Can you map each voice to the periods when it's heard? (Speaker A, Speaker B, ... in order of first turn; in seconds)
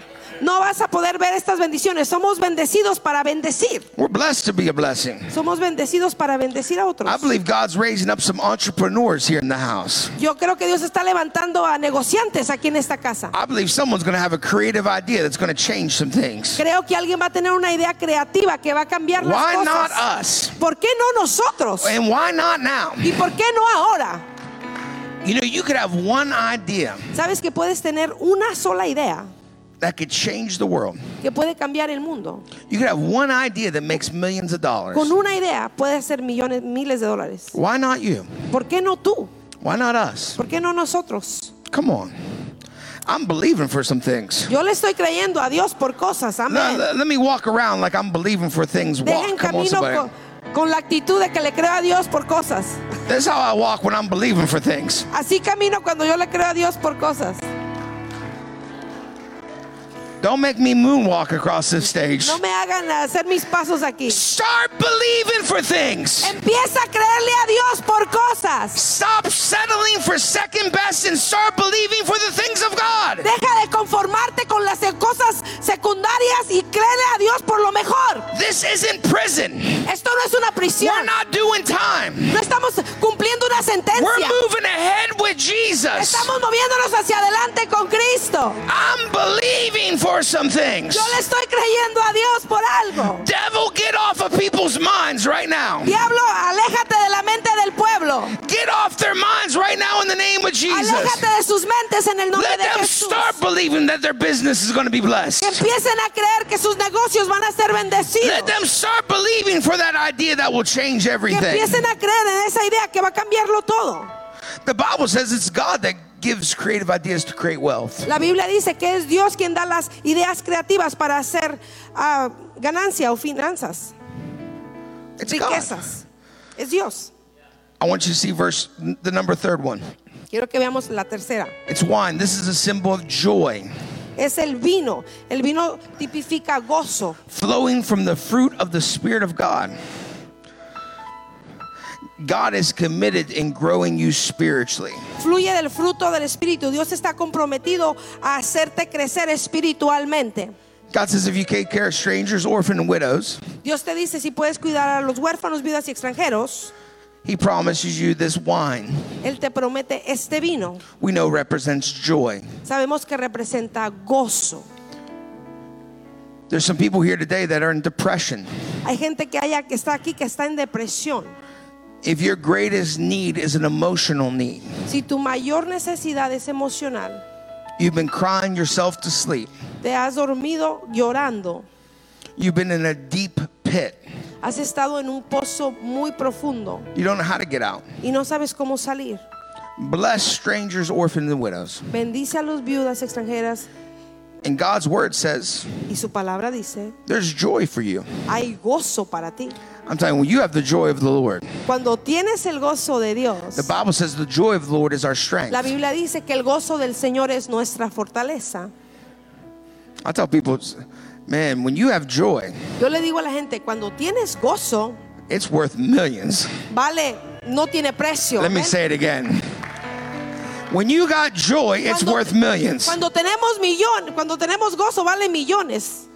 Speaker A: 0.4-3.9, 5.3-7.3, 10.2-13.3, 16.6-20.0, 20.6-21.9, 23.0-24.2, 27.1-29.3, 31.2-32.5, 34.9-37.5, 38.5-39.3, 40.4-41.5, 44.5-46.9, 49.0-52.8, 55.1-57.5, 62.2-64.2, 66.2-68.8, 73.2-78.3, 79.8-81.1, 82.3-84.4, 85.9-88.6, 90.9-93.2, 95.8-98.3, 100.7-103.4, 105.4-108.5, 111.3-114.1, 118.0-123.9, 125.2-127.1, 130.3-131.6, 134.2-137.2, 145.2-150.5, 153.6-156.7, 159.2-160.8, 162.6-164.7, 168.8-171.3, 174.9-177.2, 179.8-181.7, 184.4-186.9, 188.0-189.2, 191.9-193.7, 195.9-196.9, 198.3-199.6, 201.7-203.7, 205.5-208.7, 212.8-215.0, 216.7-218.8, 221.8-222.3, 222.8-226.1
Speaker B: 4.0-5.3, 7.0-10.1, 13.3-16.6, 19.2-20.6, 21.8-23.2, 25.2-27.1, 29.8-31.0, 32.7-35.1, 37.5-38.3, 39.6-40.4, 41.7-42.5, 43.0-44.5, 46.5-50.1, 53.1-55.1, 60.2-62.4, 64.1-66.4, 68.7-73.3, 78.3-79.9, 80.8-82.4, 83.9-86.3, 88.6-91.2, 93.1-95.9, 98.4-101.2, 102.3-105.6, 108.2-111.8, 114.6-118.1, 125.2-125.8, 127.8-129.9, 131.7-133.7, 137.3-139.8, 142.2-145.1, 150.9-153.4, 157.2-159.1, 161.0-162.6, 166.5-168.5, 172.0-174.8, 177.8-179.5, 182.4-184.0, 186.9-187.8, 189.8-191.9, 194.4-195.8, 197.1-198.2, 199.9-201.5, 203.5-205.7, 210.0-212.6, 215.3-216.6, 218.4-219.5, 220.7-223.0